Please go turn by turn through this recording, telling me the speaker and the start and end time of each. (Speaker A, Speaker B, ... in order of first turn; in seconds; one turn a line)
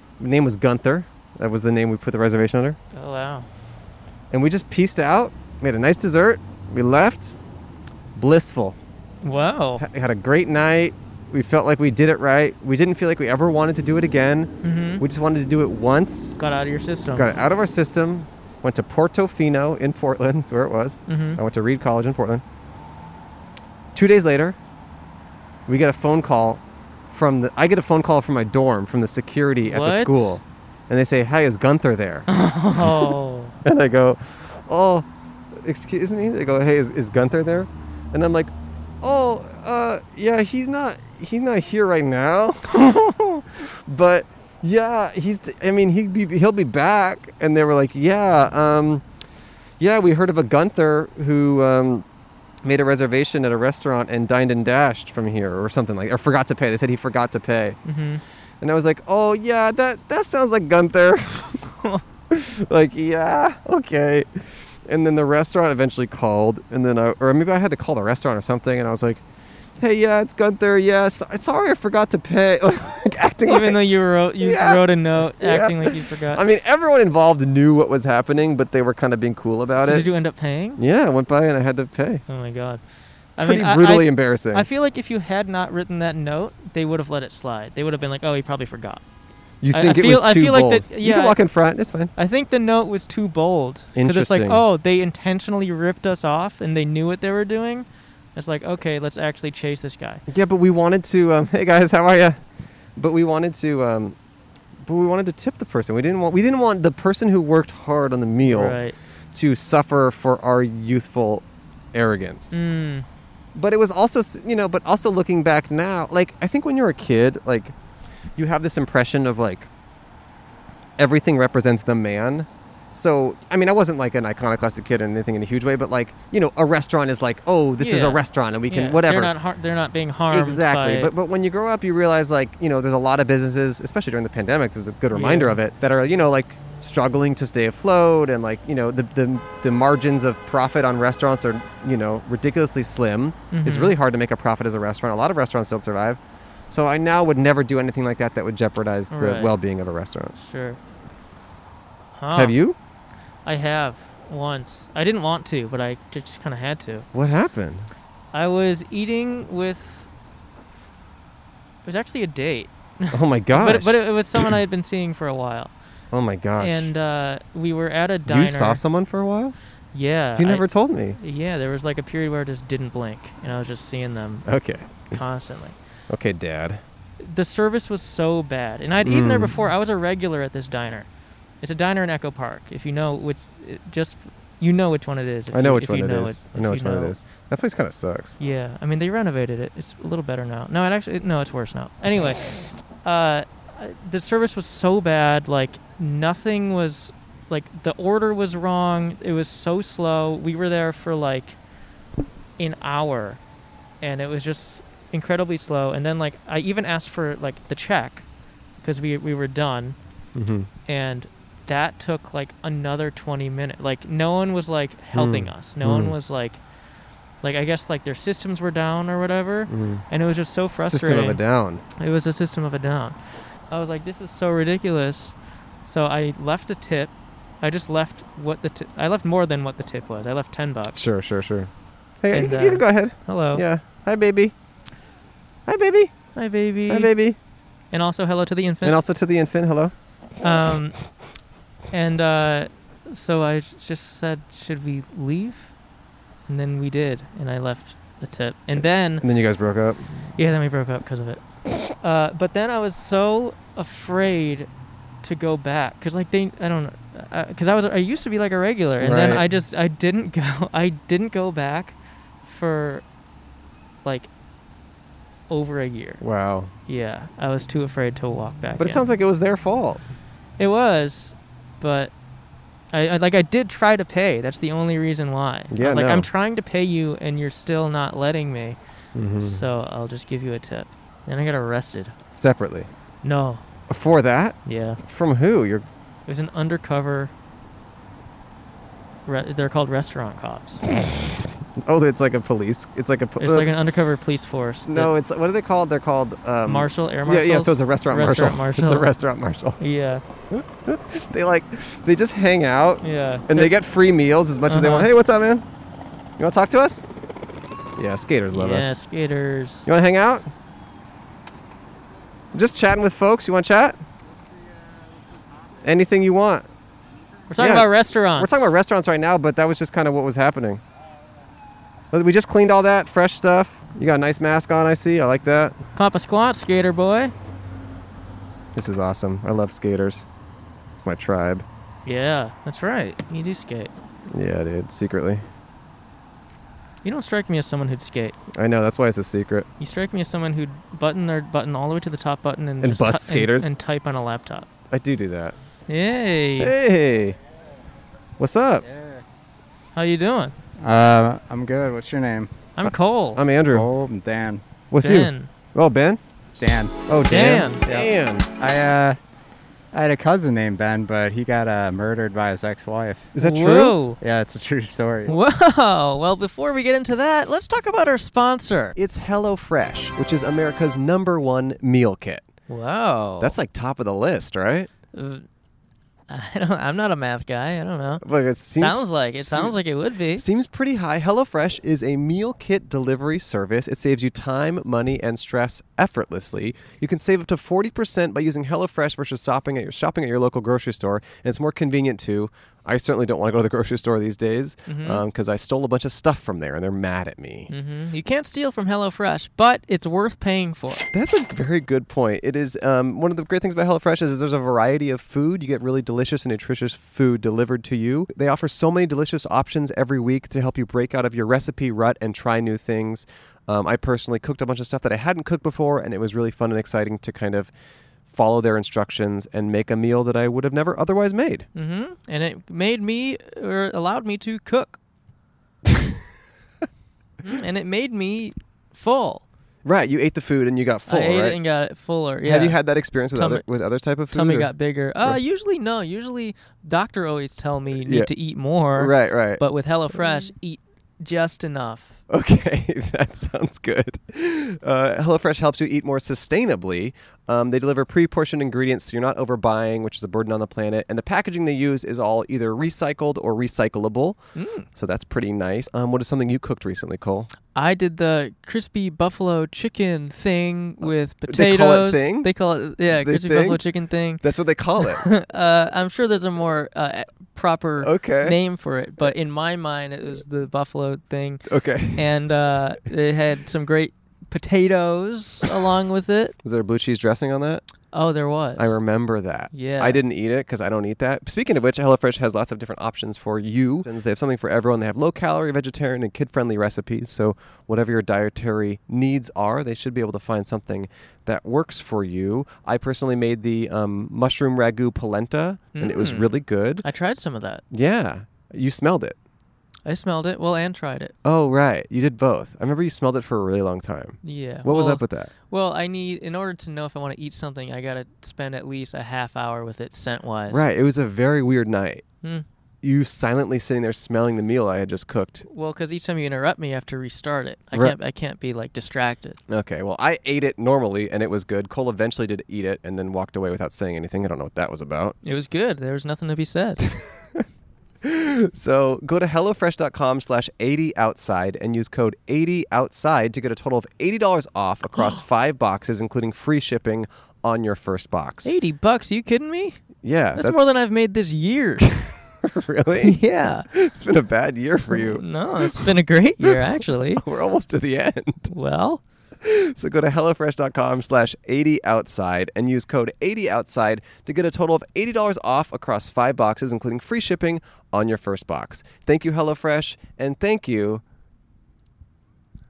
Speaker A: 0.2-2.8
Speaker B: 2.9-3.5
Speaker A: 4.3-7.3
Speaker A: 8.1-8.8
Speaker B: 9.2-9.8
Speaker A: 9.8-16.4
Speaker B: 14.6-15.0
Speaker B: 16.4-17.3
Speaker A: 17.1-22.4
Speaker B: 21.1-21.4
Speaker A: 23.9-24.6
Speaker A: 25.7-33.1
Speaker B: 29.6-30.4
Speaker B: 32.3-33.5
Speaker A: 33.6-35.0
Speaker A: 35.6-42.9
Speaker B: 42.8-43.4
Speaker A: 43.9-49.0
Speaker A: 49.8-52.0
Speaker A: 52.6-57.8
Speaker B: 57.9-58.2
Speaker A: 58.6-61.7
Speaker A: 62.3-69.2
Speaker A: 69.8-73.8
Speaker B: 73.5-76.4
Speaker A: 74.4-80.1
Speaker B: 79.8-80.8
Speaker A: 80.8-82.2
Speaker B: 82.3-82.8
Speaker B: 83.4-89.0
Speaker A: 83.4-84.7
Speaker A: 89.6-92.1
Speaker B: 89.7-91.4
Speaker B: 92.1-100.2
Speaker A: 94.0-94.6
Speaker A: 100.3-102.4
Speaker A: 103.0-104.2
Speaker A: 104.8-108.8
Speaker B: 108.4-109.0
Speaker A: 109.3-112.6
Speaker B: 112.5-113.0
Speaker A: 113.5-117.7
Speaker A: 118.4-119.7
Speaker A: 121.0-129.3
Speaker B: 127.8-131.1
Speaker A: 130.3-146.2
Speaker B: 135.1-135.6
Speaker B: 143.5-143.9
Speaker A: 146.7-150.3
Speaker B: 149.1-149.5
Speaker B: 150.4-150.8
Speaker B: 152.2-152.6
Speaker A: 152.3-152.8
Speaker B: 153.4-157.1
Speaker A: 157.1-157.9
Speaker B: 158.3-160.1
Speaker B: 161.8-165.7
Speaker A: 163.1-164.5
Speaker A: 166.1-166.9
Speaker B: 166.6-168.8
Speaker A: 168.2-169.6
Speaker B: 169.9-174.4
Speaker A: 170.4-171.2
Speaker A: 174.4-175.1
Speaker B: 175.1-175.7
Speaker A: 176.1-176.8
Speaker B: 177.2-181.1
Speaker A: 179.0-179.6
Speaker B: 181.6-187.2
Speaker A: 185.5-188.3
Speaker B: 188.4-201.6
Speaker B: 202.6-203.4
Speaker B: 204.0-208.2
Speaker B: 208.8-209.9
Speaker A: 210.3-210.7
Speaker B: 210.9-216.6
Speaker A: 215.1-216.1
Speaker B: 217.4-221.4
Speaker A: 219.7-220.0
Speaker A: 220.8-221.8
Speaker B: 221.9-223.2
Speaker B: 223.7-225.3
Speaker B: 225.8-231.1
Speaker A: 230.9-234.5
Speaker B: 232.3-233.6
Speaker A: 235.7-236.2
Speaker B: 236.3-237.1
Speaker A: 236.9-237.4
Speaker B: 237.9-239.0
Speaker A: 238.8-239.9
Speaker B: 240.4-241.1
Speaker B: 241.9-245.7
Speaker B: 246.5-249.2
Speaker A: 249.2-250.1
Speaker B: 250.4-251.4
Speaker B: 251.9-254.7
Speaker B: 255.2-263.0
Speaker A: 259.0-259.4
Speaker B: 264.0-264.3
Speaker B: 265.5-266.2
Speaker A: 266.2-266.7
Speaker B: 266.9-269.0
Speaker A: 268.8-270.0
Speaker B: 270.6-272.1
Speaker B: 272.9-278.8
Speaker A: 275.7-276.3
Speaker A: 279.1-279.6
Speaker B: 279.4-282.1
Speaker A: 282.3-282.9
Speaker B: 283.2-283.6
Speaker A: 283.9-285.9
Speaker B: 284.6-285.0
Speaker B: 286.3-287.3
Speaker B: 289.2-290.8
Speaker A: 291.8-293.7
Speaker B: 293.4-295.1
Speaker A: 294.9-299.8
Speaker B: 296.6-299.1
Speaker B: 299.8-300.2
Speaker A: 300.5-305.6
Speaker B: 303.0-303.7
Speaker B: 304.7-305.1
Speaker A: 306.4-307.1
Speaker A: 308.0-308.9
Speaker B: 308.5-309.9
Speaker A: 309.9-310.5
Speaker A: 312.5-314.0
Speaker A: 315.8-316.7
Speaker B: 317.5-318.7
Speaker A: 317.6-320.8
Speaker A: 322.1-325.8
Speaker B: 325.9-327.3
Speaker A: 328.7-330.2
Speaker A: 331.0-331.6
Speaker B: 332.0-333.9
Speaker A: 334.3-335.4
Speaker B: 337.0-338.4
Speaker A: 338.5-339.7
Speaker B: 339.8-344.7
Speaker A: 342.8-343.7
Speaker A: 344.9-345.6
Speaker B: 345.9-346.7
Speaker A: 346.6-347.4
Speaker A: 348.4-348.9
Speaker C: 348.8-349.2
Speaker B: 349.9-350.5
Speaker C: 350.8-352.6
Speaker B: 352.8-353.4
Speaker A: 352.9-353.9
Speaker C: 353.6-354.6
Speaker A: 354.9-356.2
Speaker B: 355.0-355.5
Speaker C: 356.6-357.0
Speaker A: 357.1-358.5
Speaker B: 357.2-357.9
Speaker C: 357.9-359.2
Speaker C: 359.9-363.3
Speaker A: 363.3-364.0
Speaker B: 363.4-364.2
Speaker C: 364.2-365.3
Speaker B: 365.2-368.9
Speaker A: 368.9-372.4
Speaker B: 372.7-373.5
Speaker A: 373.4-374.9
Speaker B: 375.1-375.4
Speaker B: 376.3-378.2
Speaker A: 378.2-379.8
Speaker B: 378.7-380.4
Speaker A: 380.4-397.7
Speaker B: 394.9-395.2
Speaker B: 397.7-401.1
Speaker A: 401.1-417.7
Speaker A: 418.3-421.7
Speaker B: 421.7-425.0
Speaker B: 427.4-429.4
Speaker A: 429.8-431.6
Speaker B: 431.1-432.8
Speaker A: 432.4-434.7
Speaker B: 433.3-433.6
Speaker B: 434.3-442.2
Speaker A: 438.0-438.3
Speaker A: 438.9-439.6
Speaker A: 442.3-457.5
Speaker B: 454.6-454.9
Speaker B: 457.7-464.4
Speaker A: 461.5-462.5
Speaker A: 463.1-463.8
Speaker A: 464.4-465.3
Speaker B: 465.0-476.6
Speaker A: 468.0-468.6
Speaker A: 471.7-472.3
Speaker A: 476.6-477.8
Speaker B: 478.1-478.9
Speaker A: 478.8-497.0
Speaker B: 479.7-480.2
Speaker B: 495.9-497.8
Speaker A: 497.9-499.4
Speaker B: 500.0-501.4
Speaker A: 501.4-505.5
Speaker B: 504.4-510.8
Speaker A: 510.7-512.2
Speaker A: 513.0-515.6
Speaker B: 515.6-519.6
Speaker A: 519.7-525.4
Speaker B: 525.4-527.0
Speaker A: 527.1-527.6
Speaker A: 528.2-538.7
Speaker B: 535.1-535.4
Speaker B: 538.6-542.4
Speaker A: 540.2-540.8
Speaker A: 542.6-543.4
Speaker B: 543.2-543.9
Speaker A: 543.9-546.1
Speaker B: 545.1-547.4
Speaker A: 547.4-548.7
Speaker B: 548.7-549.2
Speaker A: 549.6-561.2